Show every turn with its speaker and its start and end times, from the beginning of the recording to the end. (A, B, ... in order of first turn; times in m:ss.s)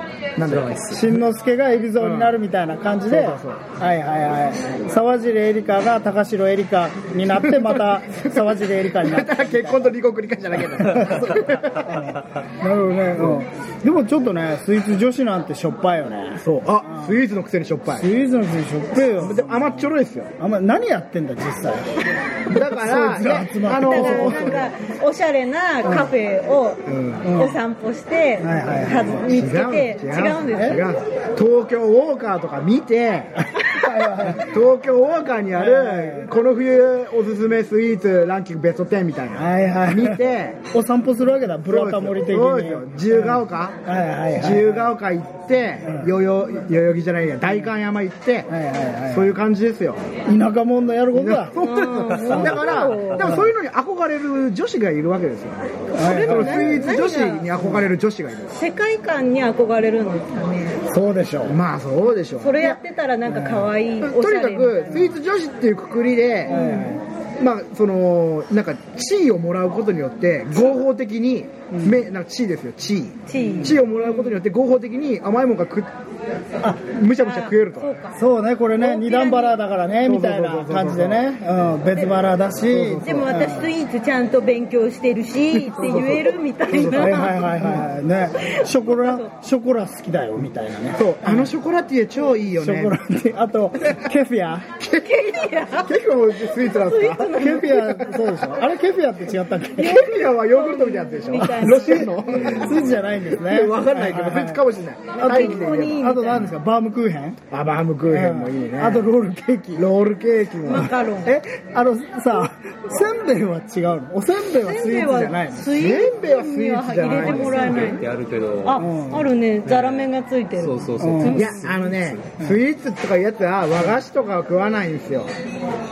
0:00.4-0:01.2 A
0:00.5-0:00.8 B
0:00.8-0:09.9 C
0:02.0-0:02.4 A
0:03.1-0:03.6 A
0:07.4-0:12.1 A
0:10.8-0:17.2 C
0:13.2-0:13.4 A
0:16.4-0:18.1 A
0:17.9-0:21.9 C
0:19.1-0:20.3 A
0:22.5-0:24.7 A
0:22.5-0:24.6 C
0:23.8-0:30.9 D
0:25.8-0:26.1 C
0:26.9-0:27.2 A
0:27.2-0:27.6 C
0:28.4-0:29.2 C
0:29.2-0:33.4 A
0:30.5-0:30.8 C
0:33.4-0:34.5 C
0:34.1-0:40.6 A
0:35.5-0:36.3 C
0:39.4-0:44.9 C
0:41.7-0:43.8 A
0:44.3-0:48.5 A
0:45.8-0:46.1 C
0:48.5-0:49.3 C
0:49.1-0:50.0 A
0:50.2-0:51.5 C
0:51.1-0:58.5 A
0:51.5-0:53.4 D
0:52.3-0:52.6 C
0:55.9-0:57.5 D
0:56.0-0:56.8 C
0:57.6-0:57.8 C
0:58.5-1:00.8 D
1:00.9-1:01.6 C
1:01.4-1:02.8 A
1:02.4-1:05.1 D
1:03.3-1:03.7 C
1:04.0-1:06.8 A
1:06.5-1:06.9 D
1:06.5-1:07.0 C
1:07.4-1:15.9 A
1:11.7-1:12.0 C
1:13.3-1:14.4 D
1:13.4-1:13.7 C
1:16.8-1:18.0 A
1:17.2-1:18.2 D
1:18.1-1:23.7 C
1:18.8-1:19.6 D
1:20.0-1:21.3 A
1:22.7-1:23.4 A
1:23.0-1:27.5 D
1:25.5-1:27.8 A
1:26.9-1:31.5 C
1:28.4-1:29.3 D
1:31.0-1:33.0 A
1:32.6-1:34.7 C
1:34.8-1:37.9 D
1:35.8-1:38.5 A
1:37.4-1:40.1 C
1:39.8-1:42.7 D
1:39.8-1:46.1 A
1:41.4-1:44.6 C
1:45.2-1:46.6 D
1:45.2-1:47.4 C
1:47.5-1:49.1 A
1:48.1-1:49.8 C
1:49.7-1:50.9 A
1:50.6-1:51.4 D
1:51.2-1:55.7 C
1:54.5-1:58.0 D
1:55.7-1:58.0 A
1:57.1-1:58.8 B
1:58.6-2:01.6 D
1:58.8-1:59.3 C
1:59.6-2:02.2 B
2:01.0-2:01.4 C
2:01.3-2:05.3 A